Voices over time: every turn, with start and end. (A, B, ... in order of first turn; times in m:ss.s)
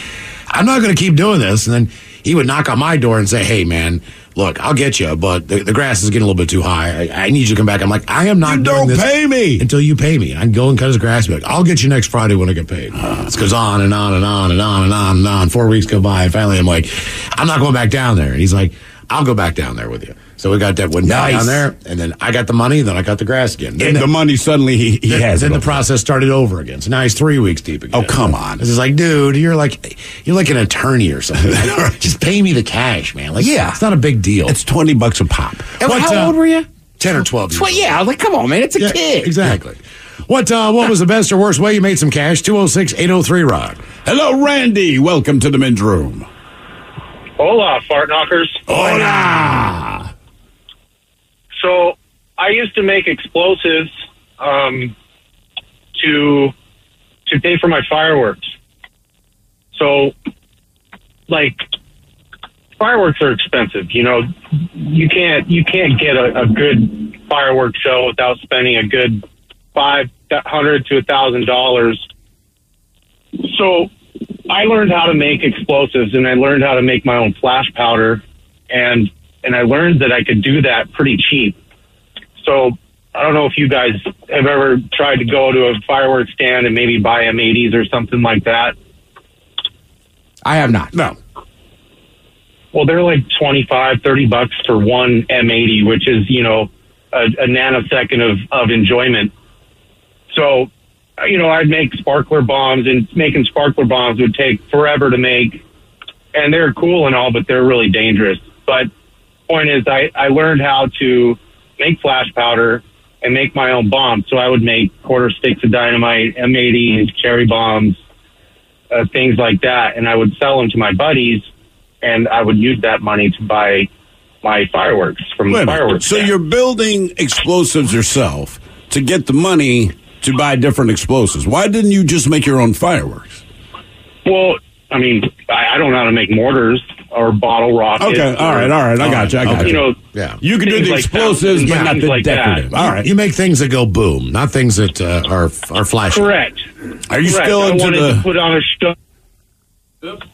0:00.5-0:24.1 A
0:08.4-0:09.6 B
0:21.1-0:21.7 C
0:23.8-0:25.8 B
0:25.1-0:34.6 A
0:27.9-0:28.6 B
0:31.5-0:31.8 B
0:33.4-0:33.8 C
0:34.5-0:35.8 B
0:35.8-0:36.7 C
0:35.8-0:36.4 A
0:37.0-0:37.8 A
0:37.5-0:39.4 C
0:38.8-0:43.8 A
0:44.0-0:46.3 B
0:47.4-0:48.6 D
0:48.7-0:50.1 B
0:48.7-0:49.3 A
0:51.6-0:54.9 D
0:56.0-0:56.5 D
0:57.3-0:58.5 D
0:59.8-1:00.1 D
1:01.3-1:01.6 D
1:02.8-1:04.3 D
1:04.8-1:09.2 D
1:09.8-1:12.0 D
1:13.4-1:13.9 D
1:14.5-1:21.6 D
1:22.4-1:28.7 D
1:30.4-1:31.0 C
1:32.7-1:39.3 D
1:40.3-1:40.7 D
1:41.2-1:45.6 D
1:46.4-1:48.9 D
1:49.5-1:58.0 D
1:58.9-2:01.4 D
2:02.0-2:03.9 D
2:04.4-2:06.3 D
2:05.5-2:13.4 B
2:14.3-2:18.7 D
2:18.0-2:23.1 B
2:19.0-2:20.4 A
2:19.5-2:19.9 D
2:20.6-2:22.7 D
2:21.6-2:22.0 A
2:22.8-2:26.3 A
2:26.2-2:26.6 D
2:27.1-2:28.3 B
2:27.2-2:28.9 D